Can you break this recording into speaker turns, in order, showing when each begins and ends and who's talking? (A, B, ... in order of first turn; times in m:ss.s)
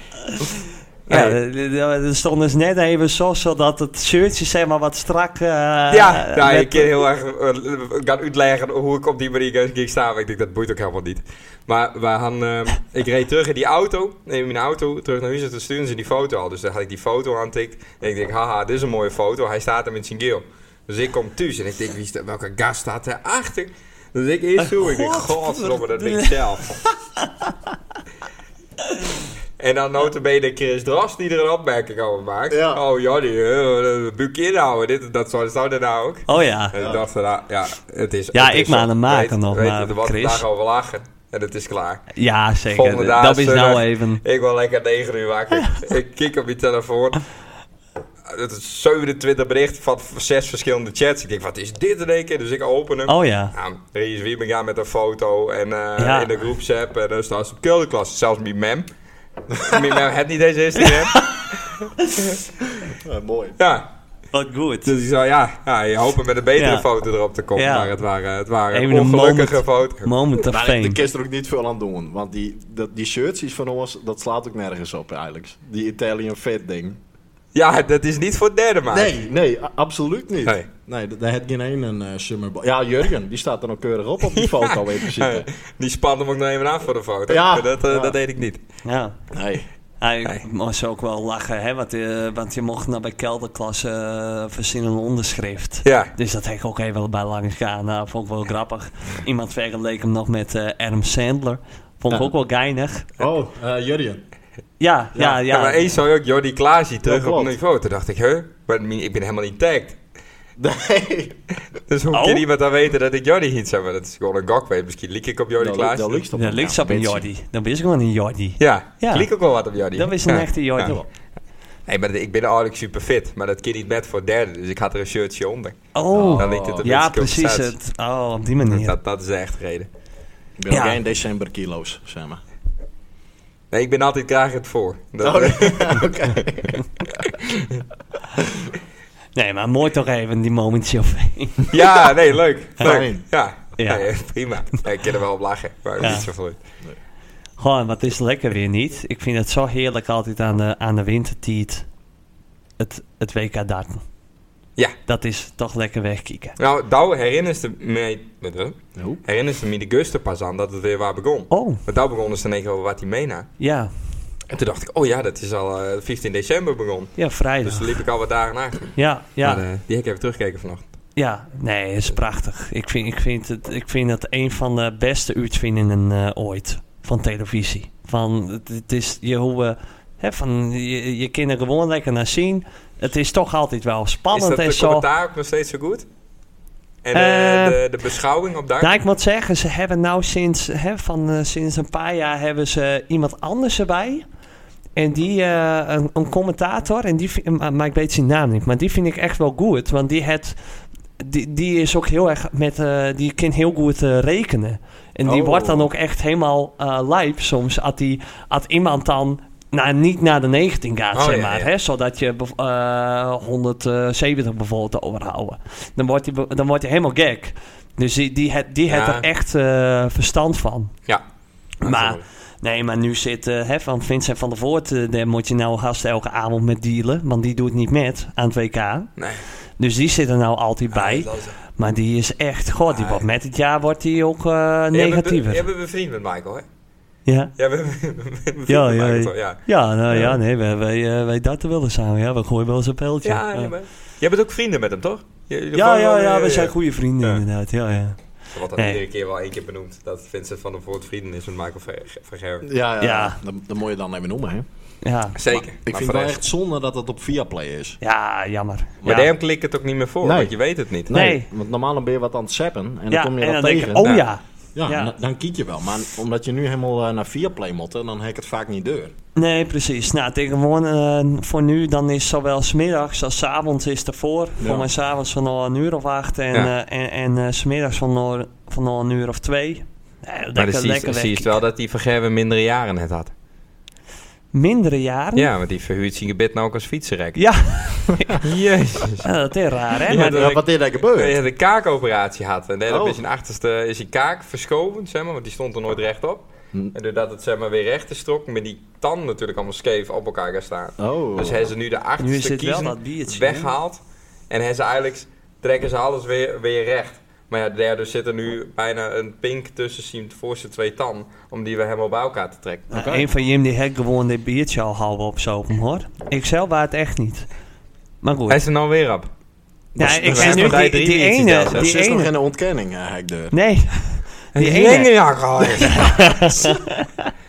0:01.1-0:01.4 A
0:01.1-0:06.9 B
0:05.9-0:26.8 A
0:24.6-0:26.4 B
0:27.2-0:27.5 B
0:29.6-0:42.1 A
0:32.5-0:32.8 C
0:36.3-0:36.7 B
0:36.8-0:37.0 C
0:38.3-0:40.4 B
0:42.1-0:44.2 B
0:42.7-0:47.2 A
0:48.3-0:58.9 A
0:53.1-0:53.5 B
0:56.0-0:56.3 B
0:59.5-0:59.8 C
0:59.6-1:01.3 A
1:00.8-1:01.4 B
1:02.9-1:03.6 C
1:03.6-1:03.9 A
1:04.3-1:04.9 B
1:04.8-1:10.1 A
1:06.6-1:06.8 B
1:07.5-1:07.9 B
1:08.7-1:11.0 B
1:10.5-1:17.0 C
1:17.5-1:19.1 A
1:18.9-1:25.5 C
1:24.4-1:28.6 A
1:27.3-1:28.2 C
1:28.8-1:29.2 B
1:29.3-1:29.6 C
1:30.0-1:43.1 B
1:35.8-1:36.1 A
1:43.2-1:44.2 C
1:44.8-1:46.0 B
1:45.5-1:50.0 A
1:47.0-1:47.5 C
1:50.6-1:51.4 C
1:51.9-1:56.2 A
1:52.1-1:52.4 B
1:55.6-1:57.3 C
1:56.3-1:59.3 B
1:58.6-2:00.9 A
1:59.9-2:01.0 B
2:01.9-2:07.7 A
2:05.9-2:08.9 B
2:06.1-2:06.9 C
2:08.7-2:09.9 A
2:10.6-2:12.4 C
2:10.7-2:11.0 B
2:13.7-2:16.1 A
2:15.2-2:17.3 C
2:19.3-2:21.7 B
2:21.7-2:26.6 A
2:22.8-2:23.2 C
2:23.8-2:24.1 B
2:26.0-2:26.3 B
2:27.6-2:31.8 B
2:32.8-2:34.0 B
2:35.1-2:36.5 B
2:36.6-2:43.5 A
2:41.5-2:41.8 B
2:43.6-2:43.9 B
2:44.5-2:50.9 A
2:47.2-2:48.0 B
2:49.0-2:49.6 B
2:51.2-3:05.0 B
3:04.3-3:06.0 A
3:07.0-3:08.9 A
3:07.1-3:07.8 B
3:08.8-3:14.2 B
3:15.0-3:20.6 B
3:21.2-3:40.9 B
3:25.2-3:25.9 C
3:31.1-3:31.7 A
3:38.9-3:39.2 A
3:41.8-3:49.1 B
3:41.8-3:42.2 A
3:49.2-3:49.4 A
3:49.8-3:55.6 B
3:50.9-3:51.6 A
3:52.9-3:53.2 A
3:54.9-3:56.6 A
3:57.2-3:57.5 B
3:57.6-3:59.6 A
3:58.7-4:03.7 B
4:03.2-4:07.4 A
4:05.7-4:08.2 B
4:08.5-4:12.6 A
4:08.8-4:09.0 B
4:12.6-4:14.6 C
4:13.0-4:13.4 B
4:15.0-4:15.4 B
4:15.4-4:16.4 A
4:15.5-4:18.0 C
4:18.0-4:19.2 B
4:19.0-4:19.3 C
4:19.0-4:21.1 A
4:20.2-4:20.5 C
4:21.1-4:24.1 C
4:21.1-4:21.4 B
4:23.1-4:25.1 B
4:24.7-4:29.1 C
4:29.4-4:41.6 B
4:34.6-4:34.9 C
4:40.6-4:43.3 A
4:44.5-4:45.5 B
4:45.4-4:47.4 A
4:47.4-4:48.4 B
4:48.4-4:49.3 A
4:49.2-4:50.6 B
4:50.1-5:12.9 A
4:50.1-4:51.4 C
4:52.9-4:53.2 C
5:01.0-5:01.7 C
5:02.2-5:03.7 B
5:12.9-5:13.3 C
5:12.9-5:17.4 B
5:18.2-5:18.6 B
5:18.5-5:19.3 A
5:20.0-5:20.8 C
5:20.0-5:22.3 B
5:20.0-5:21.9 A
5:21.7-5:23.5 C
5:23.5-5:25.1 B
5:24.5-5:26.4 A
5:25.6-5:27.3 B